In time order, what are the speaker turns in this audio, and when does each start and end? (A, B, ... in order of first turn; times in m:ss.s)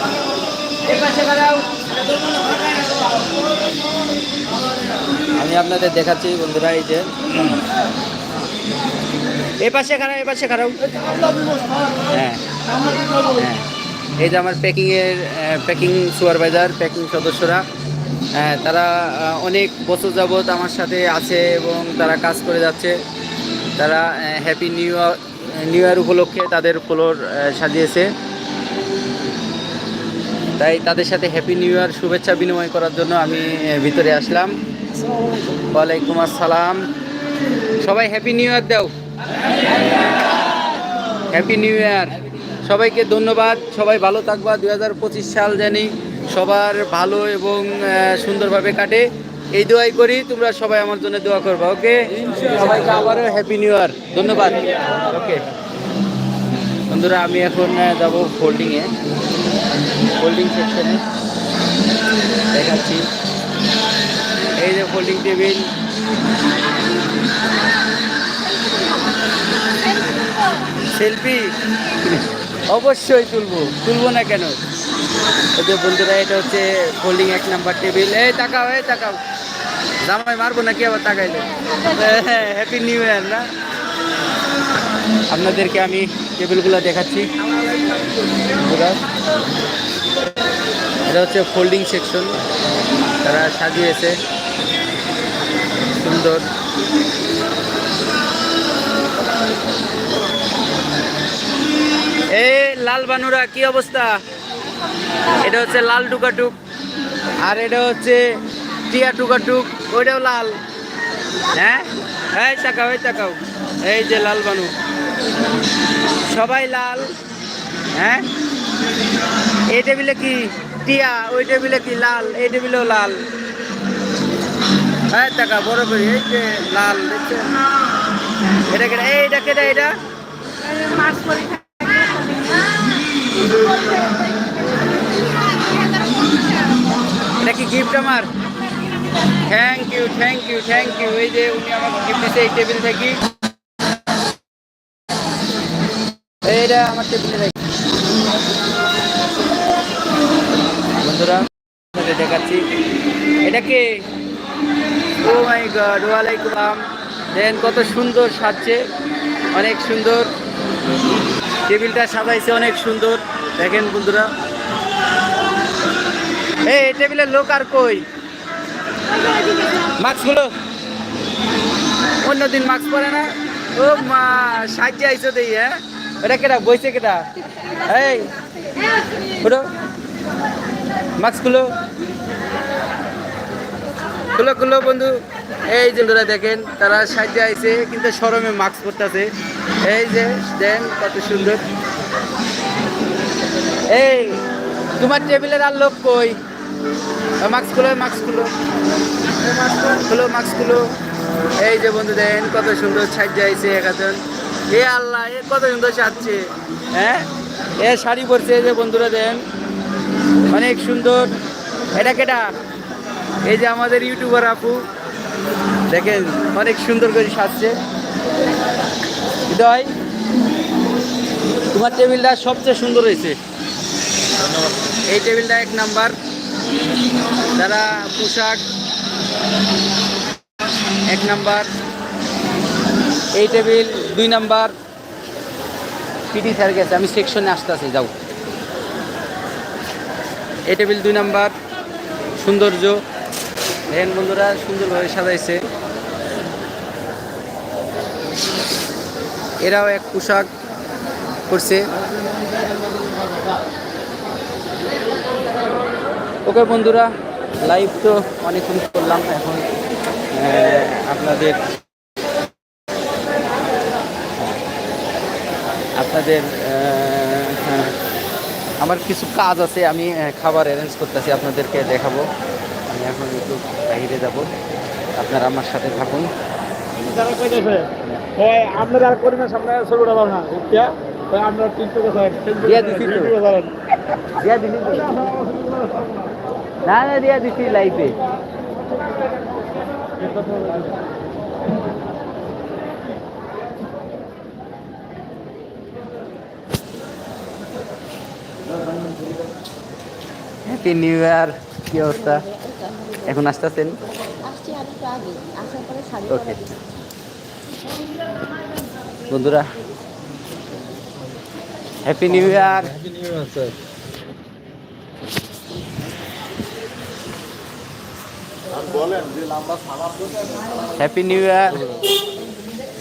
0:00.9-0:01.7 A
0:05.4-0:07.6 A
0:09.6-0:10.8 A
0:12.1-0:12.4 A
0:13.3-0:13.6 A
0:14.2-0:17.6 A
0:18.3-0:23.0 A
0:23.8-0:28.1 A
0:30.6-0:34.5 A
0:35.7-0:36.8 A
0:37.8-0:38.9 A
0:41.3-0:55.4 A
0:56.9-0:58.9 A
1:00.2-1:01.0 A
1:02.5-1:03.1 A
1:04.6-1:05.6 A
1:10.9-1:14.6 A
1:15.6-1:19.2 A
1:20.0-1:23.5 A
1:25.3-1:27.3 A
1:28.5-1:29.0 A
1:31.1-1:32.3 A
1:33.2-1:34.2 A
1:36.0-1:36.4 A
1:42.3-1:44.2 A
1:45.4-1:46.6 A
1:47.4-1:48.4 A
1:48.9-1:50.5 A
1:51.6-1:54.7 A
1:56.3-1:57.1 A
1:57.9-1:58.2 A
1:59.7-2:03.2 A
2:05.1-2:07.5 A
2:08.7-2:09.9 A
2:17.4-2:18.3 A
2:19.5-2:23.2 A
2:26.4-2:27.6 A
2:31.0-2:32.6 A
2:33.4-2:34.0 A
2:35.2-2:36.8 A
2:37.3-2:38.8 A
2:39.5-2:40.3 A
2:41.7-2:44.3 A
2:46.6-2:48.0 A
2:50.0-2:50.5 A
2:52.2-2:57.2 A
2:57.9-2:58.3 A
2:59.4-2:59.7 A
3:01.2-3:01.7 A
3:04.4-3:09.3 A
3:09.8-3:11.6 A
3:13.9-3:14.4 A
3:15.0-3:16.4 A
3:17.4-3:18.5 A
3:19.9-3:20.8 A
3:21.6-3:24.2 A
3:24.7-3:27.3 A
3:27.8-3:29.4 A
3:30.5-3:31.3 A
3:31.9-3:32.5 A
3:33.4-3:34.8 A
3:35.9-3:37.7 A
3:39.5-3:39.9 A
3:41.7-3:43.4 A
3:45.1-3:46.2 A
3:47.6-3:48.6 A
3:51.1-3:51.7 A
3:53.4-3:54.7 A
3:56.3-3:58.1 A
4:00.7-4:01.5 A
4:02.4-4:03.0 A
4:03.9-4:05.6 A
4:09.6-4:10.5 A
4:11.5-4:11.8 A
4:16.5-4:17.1 A
4:17.6-4:19.6 A
4:20.3-4:21.6 A
4:26.0-4:27.9 A
4:28.8-4:32.3 A
4:32.9-4:34.5 A
4:35.2-4:36.3 A
4:37.0-4:43.7 B
4:42.6-4:43.3 A
4:44.4-4:45.1 A
4:45.2-4:45.8 B
4:46.8-4:48.2 A
4:50.4-4:50.8 B
5:00.6-5:02.4 A
5:02.2-5:03.4 C
5:03.2-5:04.0 A
5:04.4-5:06.8 C
5:06.3-5:06.6 A
5:09.3-5:09.7 A
5:12.0-5:12.9 A
5:12.6-5:13.7 B
5:21.0-5:21.9 A